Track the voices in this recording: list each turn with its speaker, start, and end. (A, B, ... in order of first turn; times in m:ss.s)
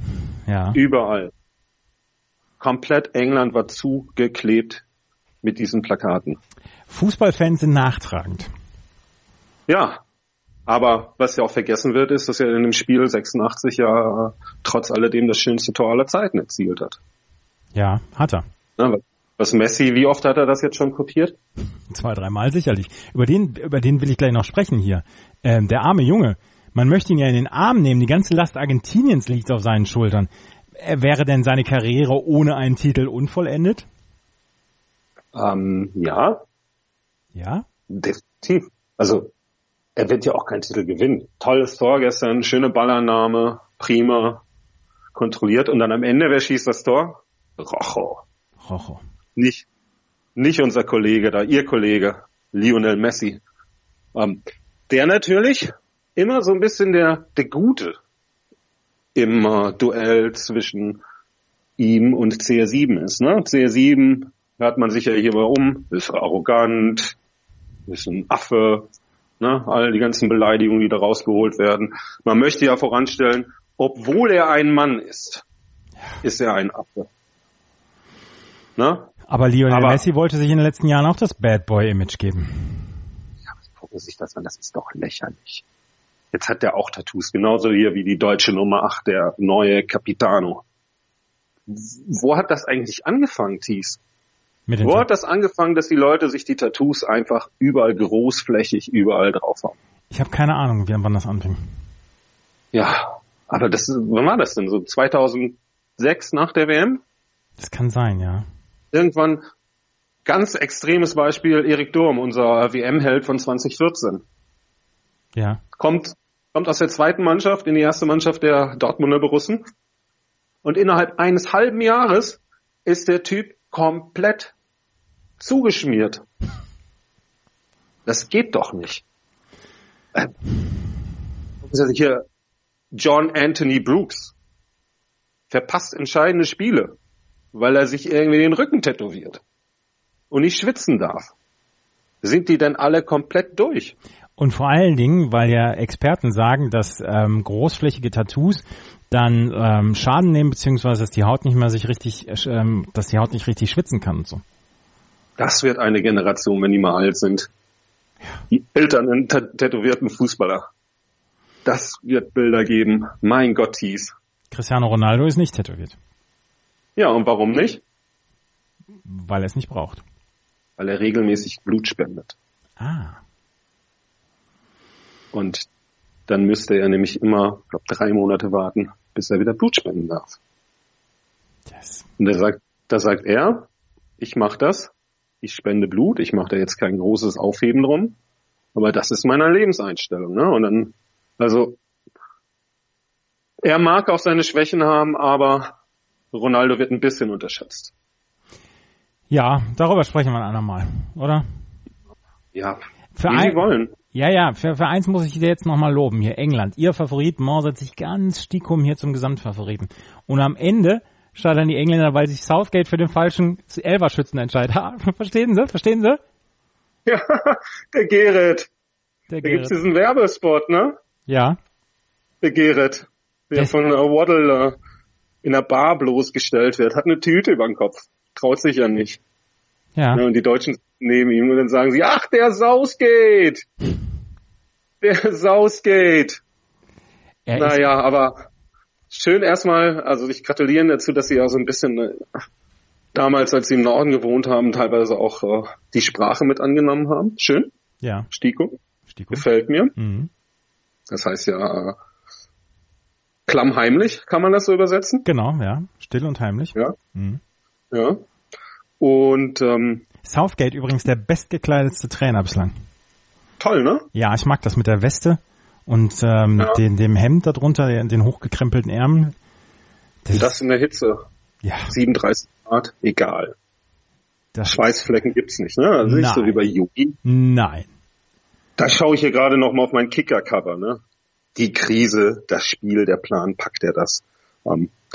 0:00.5-0:00.8 A
0:00.7-0:01.3 B
0:02.6-0:04.8 B
0:05.4-0:06.4 B
0:06.9-0:08.5 A
0:09.7-0:10.0 B
0:10.7-0:17.0 B
0:17.7-0:18.4 A
0:18.8-0:21.4 B
0:21.9-0:33.9 A
0:35.3-0:36.4 B
0:37.4-0:37.6 A
0:37.9-0:39.3 B
0:40.0-0:44.4 B
0:45.2-0:48.2 B
0:48.6-0:49.0 A
0:49.4-0:49.6 B
0:50.4-0:53.4 B
0:54.2-0:58.0 B
0:59.2-1:01.0 B
1:01.8-1:07.2 B
1:07.9-1:08.9 B
1:09.4-1:15.4 B
1:16.2-1:17.1 B
1:18.8-1:19.1 B
1:19.3-1:22.9 A
1:19.7-1:20.0 B
1:23.6-1:25.6 B
1:26.3-1:30.6 B
1:31.7-1:34.0 B
1:34.7-1:35.1 A
1:34.8-1:39.8 B
1:40.1-1:41.6 A
1:42.7-1:47.0 B
1:47.6-1:48.4 A
1:48.9-1:49.4 B
1:50.2-1:54.2 B
1:55.4-1:55.6 A
1:55.8-1:59.6 B
2:00.6-2:04.5 B
2:05.4-2:06.3 B
2:08.1-2:09.0 B
2:11.6-2:12.2 B
2:12.9-2:14.3 B
2:15.5-2:17.0 B
2:17.5-2:19.4 B
2:20.3-2:21.3 B
2:22.2-2:24.0 B
2:24.4-2:34.4 A
2:35.4-2:37.5 B
2:38.5-2:40.6 B
2:41.6-2:44.1 B
2:44.5-2:46.0 A
2:47.0-2:47.8 B
2:49.0-2:50.0 A
2:50.8-2:52.4 B
2:52.8-2:53.2 A
2:55.3-2:55.7 B
2:56.3-3:00.4 B
3:01.7-3:02.0 A
3:02.2-3:03.6 B
3:04.2-3:08.2 B
3:08.8-3:11.8 B
3:13.6-3:15.7 B
3:16.3-3:17.9 B
3:19.3-3:21.4 A
3:22.5-3:23.9 B
3:23.2-3:36.2 A
3:37.1-3:38.7 B
3:39.3-3:39.7 A
3:39.4-3:40.9 B
3:41.3-3:41.6 A
3:42.4-3:44.7 B
3:45.4-3:49.2 B
3:50.0-3:50.2 A
3:50.2-3:53.6 B
3:55.0-3:56.4 B
3:57.5-3:57.9 A
3:57.6-3:58.5 B
3:59.1-4:02.2 B
4:03.2-4:07.7 B
4:08.0-4:08.3 A
4:08.3-4:08.7 B
4:09.1-4:10.3 A
4:09.3-4:09.9 B
4:11.1-4:12.0 B
4:13.5-4:15.3 B
4:15.2-4:17.4 A
4:17.9-4:18.2 B
4:19.0-4:20.0 B
4:20.2-4:22.7 A
4:23.6-4:24.0 B
4:24.1-4:29.3 A
4:30.2-4:30.6 A
4:30.3-4:31.2 B
4:31.6-4:31.9 A
4:31.9-4:33.5 B
4:34.5-4:35.2 A
4:34.7-4:37.2 B
4:36.0-4:36.7 A
4:37.2-4:37.9 A
4:38.8-4:41.0 B
4:41.6-4:44.9 B